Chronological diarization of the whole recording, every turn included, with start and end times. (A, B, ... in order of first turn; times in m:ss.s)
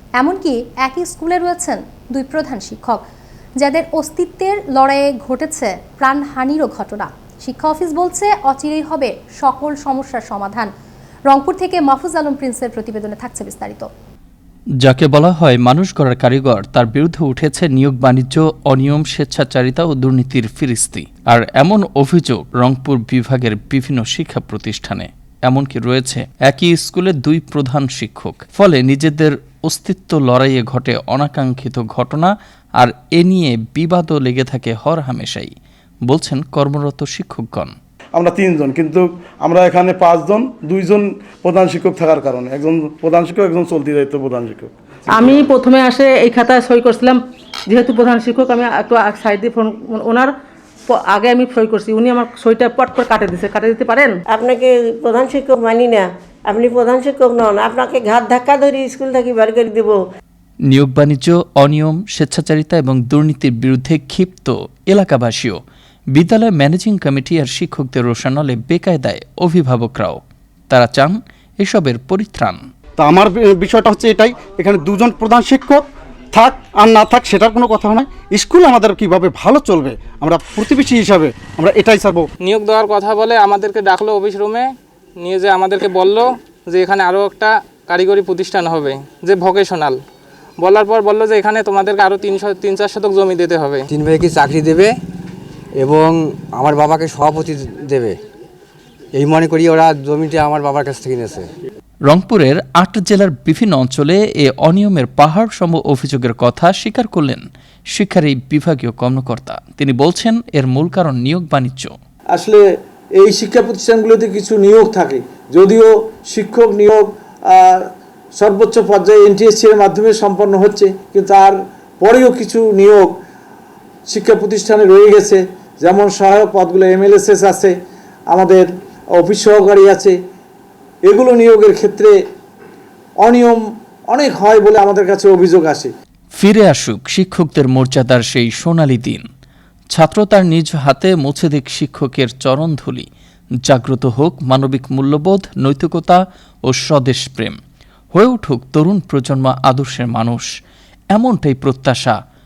0:00.2-0:03.0 A
0:03.6-0:10.7 A
0:11.3-0:13.9 A
0:14.8-0:35.5 B
0:36.1-0:37.8 B
0:38.2-0:44.7 C
0:45.1-0:50.3 D
0:50.9-0:54.2 D
0:54.3-1:00.0 E
1:00.7-1:05.6 B
1:06.2-1:12.6 B
1:13.0-1:22.3 F
1:22.4-1:30.0 G
1:30.6-1:33.9 G
1:33.9-1:35.0 H
1:35.8-1:38.2 H
1:39.1-1:41.5 H
1:42.1-1:51.9 B
1:52.4-1:52.6 I
1:53.2-1:57.8 I
1:58.4-2:03.1 I
2:04.1-2:07.8 I
2:08.3-2:08.7 I
2:09.2-2:10.2 I
2:11.1-2:12.1 I
2:13.2-2:13.6 I
2:14.1-2:15.9 I
2:16.4-2:19.2 B
2:19.9-2:23.1 B
2:23.6-2:27.6 B
2:28.1-2:30.5 B
2:31.1-2:32.2 B